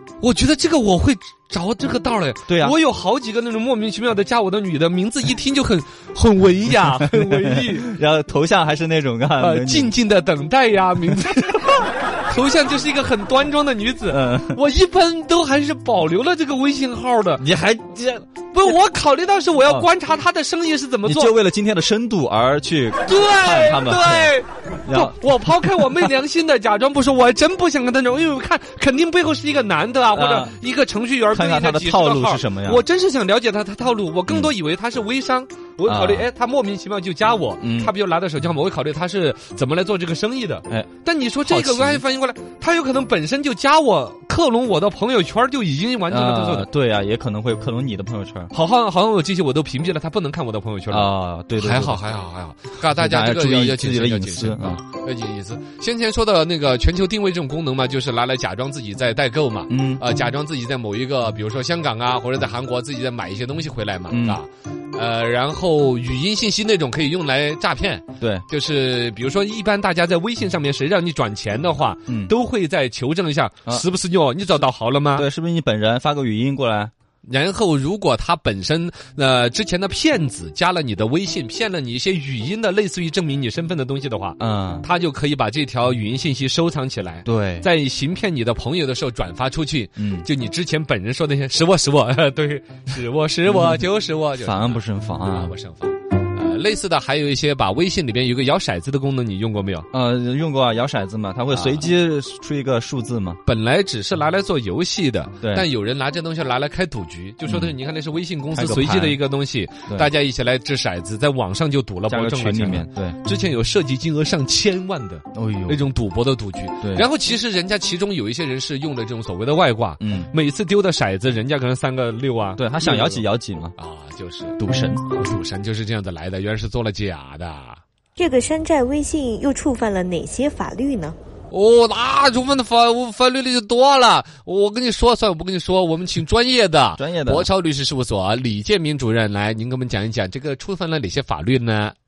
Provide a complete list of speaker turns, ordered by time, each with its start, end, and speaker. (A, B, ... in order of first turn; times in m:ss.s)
0:00.2-0:07.9 A
0:02.5-0:02.8 B
0:07.1-0:09.9 B
0:09.4-0:17.4 A
0:14.1-0:14.6 B
0:17.4-0:18.2 B
0:18.5-0:21.4 A
0:21.0-0:24.3 B
0:23.1-0:46.7 A
0:24.9-0:25.2 B
0:30.1-0:30.6 B
0:31.3-0:32.8 B
0:35.8-0:36.3 B
0:37.6-0:37.9 B
0:41.4-0:42.0 B
0:46.1-0:48.5 B
0:48.5-1:15.3 A
0:50.9-0:52.0 B
0:52.8-0:54.8 B
0:59.7-1:00.0 B
1:04.1-1:04.4 B
1:08.2-1:08.4 B
1:12.1-1:12.3 B
1:15.1-1:16.9 B
1:17.3-1:39.9 A
1:24.4-1:24.9 B
1:27.2-1:27.7 B
1:30.0-1:30.3 B
1:33.5-1:33.8 B
1:34.4-1:35.5 B
1:39.9-1:43.4 B
1:41.5-1:41.9 A
1:43.4-2:03.3 A
1:45.4-1:45.7 B
1:47.5-1:47.8 B
1:48.5-1:49.2 B
1:52.1-1:53.2 B
1:55.3-1:55.9 B
1:56.8-1:57.1 B
2:00.0-2:00.3 B
2:02.6-2:03.8 B
2:03.8-2:07.8 A
2:04.6-2:05.1 B
2:08.2-2:11.2 C
2:11.5-2:22.0 A
2:17.0-2:17.5 B